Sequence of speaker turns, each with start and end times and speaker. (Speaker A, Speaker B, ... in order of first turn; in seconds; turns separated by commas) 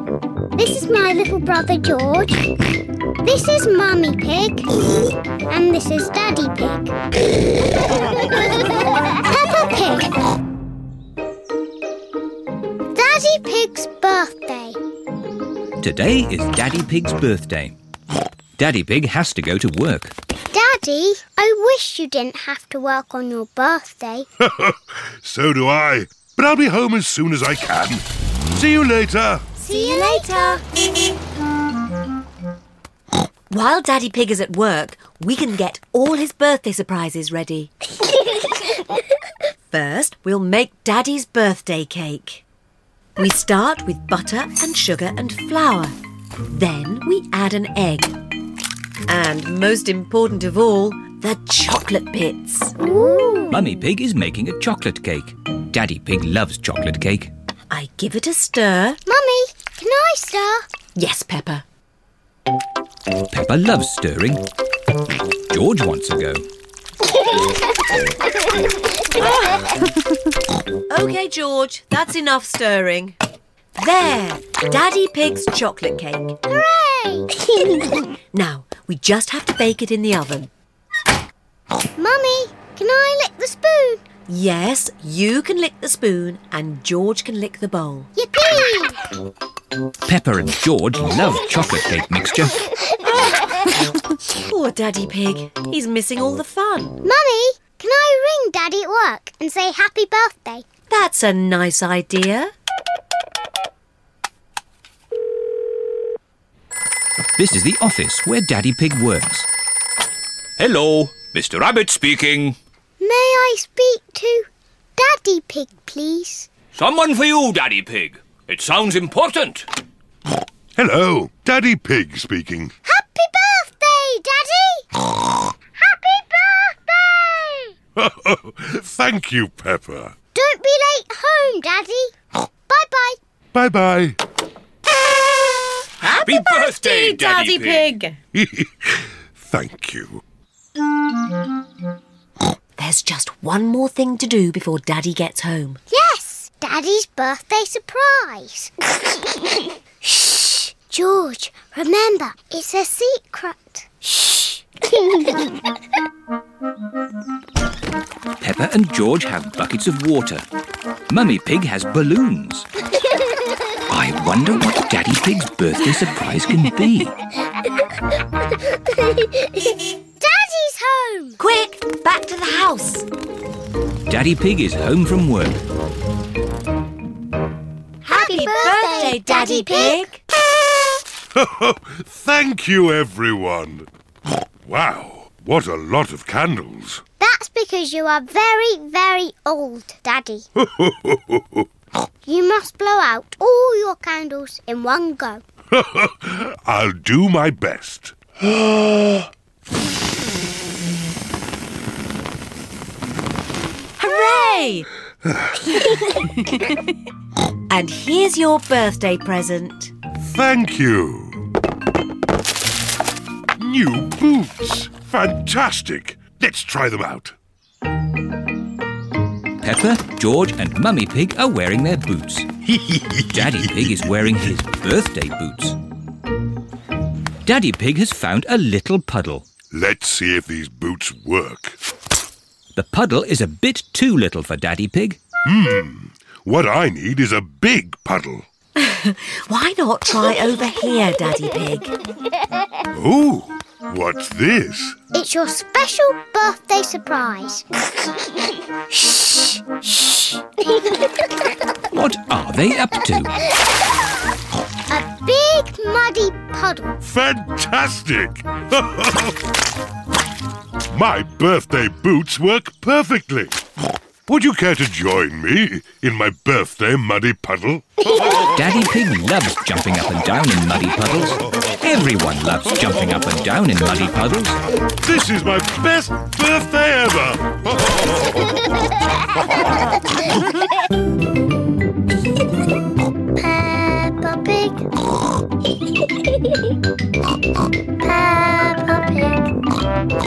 Speaker A: 0.6-2.5, Speaker A: 3.2-4.7, Speaker A: 5.5-6.9, Speaker A: 9.1-10.1, Speaker A: 12.9-14.8, Speaker B: 15.8-17.8, Speaker B: 18.6-20.1, Speaker A: 20.5-24.3, Speaker C: 24.4-29.5, Speaker D: 29.6-30.6, Speaker A: 29.6-30.6, Speaker D: 33.5-37.7, Speaker D: 39.7-42.4, Speaker D: 43.2-46.0, Speaker D: 46.5-48.1, Speaker D: 49.1-52.8, Speaker A: 52.8-53.6, Speaker B: 53.5-57.3, Speaker D: 57.7-59.0, Speaker A: 59.1-60.6, Speaker D: 61.0-61.6, Speaker B: 63.3-64.5, Speaker B: 65.5-66.5, Speaker D: 69.3-69.6, Speaker D: 70.9-73.2, Speaker D: 73.8-76.4, Speaker A: 76.5-77.3, Speaker D: 78.3-80.5, Speaker A: 82.0-84.0, Speaker D: 84.3-88.1, Speaker A: 88.2-89.0, Speaker B: 90.0-92.8, Speaker D: 94.2-97.0, Speaker A: 97.0-100.7, Speaker D: 100.9-102.5, Speaker B: 107.4-109.5, Speaker B: 110.6-112.6, Speaker A: 113.0-116.5, Speaker B: 116.7-119.7, Speaker C: 120.8-122.7, Speaker A: 122.8-127.7, Speaker C: 128.0-130.1, Speaker A: 130.3-132.1, Speaker A: 132.7-133.2, Speaker C: 133.5-134.2, Speaker D: 136.0-138.2, Speaker B: 136.0-137.9, Speaker C: 138.3-140.2, Speaker D: 142.8-145.8, Speaker A: 145.9-148.7, Speaker A: 150.0-154.5, Speaker B: 158.4-160.4, Speaker B: 161.1-162.7, Speaker B: 163.9-167.2, Speaker A: 170.2-171.4, Speaker D: 171.4-173.1, Speaker B: 174.1-175.6, Speaker D: 178.0-180.2, Speaker A: 178.1-180.1, Speaker C: 181.3-183.9, Speaker C: 184.7-187.0, Speaker A: 187.2-190.5, Speaker C: 190.6-191.7, Speaker A: 192.2-195.4, Speaker C: 195.7-199.3, Speaker D: 204.0-204.9, Speaker D: 207.7-209.9, Speaker C: 210.2-211.5, Speaker C: 213.6-217.3, Speaker B: 219.6-222.5, Speaker C: 222.8-224.0, Speaker B: 223.3-225.8, Speaker B: 227.4-229.5, Speaker C: 229.7-231.8, Speaker B: 232.8-235.2, Speaker C: 235.4-238.5, Speaker D: 238.8-242.0, Speaker C: 242.9-245.0, Speaker A: 245.1-247.7, Speaker A: 249.0-249.6, Speaker B: 251.9-253.3, Speaker A: 254.9-256.9, Speaker C: 257.0-259.4, Speaker C: 260.9-263.6, Speaker C: 264.3-268.4, Speaker B: 268.4-274.6, Speaker C: 275.0-278.2, Speaker A: 283.4-284.9, Speaker A: 288.0-289.5